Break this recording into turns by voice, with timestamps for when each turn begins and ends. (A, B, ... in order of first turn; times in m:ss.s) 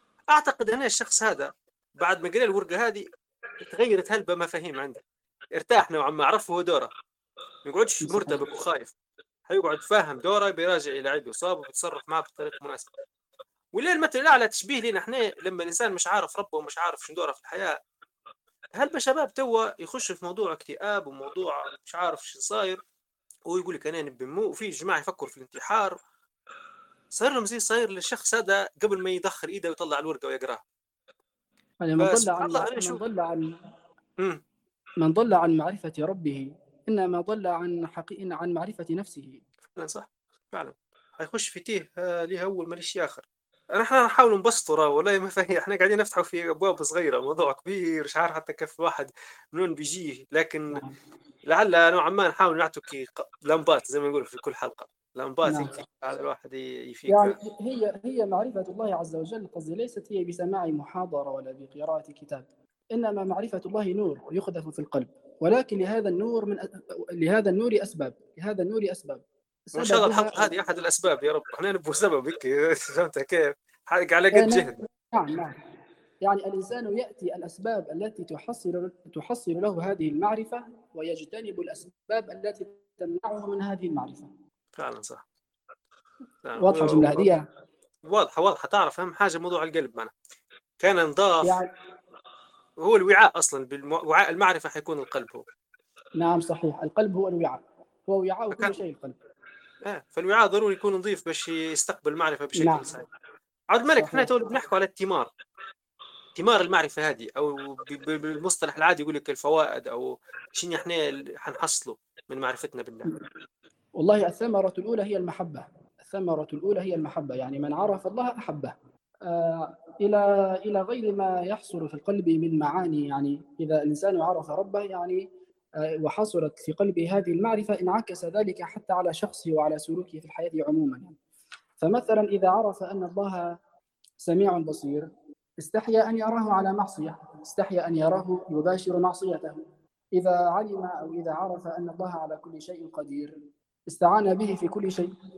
0:00.3-0:03.0 A
0:03.6-0:05.0 A
0:05.6-0:06.9 A
0:07.6-0:08.9 A
0:08.0-0:08.4 B
0:09.5-0:12.9 A
0:13.7-0:17.8 A
0:18.8-0:22.8 A
0:23.5-0:26.0 A
0:27.1-0:30.6 A
0:31.8-0:33.5 B
0:32.0-0:33.0 A
0:35.0-0:39.4 B
0:39.8-0:50.8 A
0:51.5-0:57.4 A
0:55.4-0:55.7 B
0:57.1-1:10.4 B
1:09.8-1:14.8 A
1:14.3-1:15.6 B
1:16.2-1:24.3 B
1:24.8-1:25.2 A
1:26.4-1:27.3 A
1:26.6-1:27.4 B
1:28.1-1:30.1 A
1:30.8-1:31.6 A
1:31.4-1:31.7 B
1:32.8-1:35.4 A
1:36.2-1:39.2 B
1:39.8-1:43.1 A
1:42.6-1:42.9 B
1:43.7-1:45.3 A
1:44.0-1:44.5 B
1:46.4-1:53.1 A
1:54.0-2:05.3 B
2:06.0-2:11.2 B
2:11.8-2:13.6 B
2:14.2-2:23.4 B
2:23.9-2:25.1 B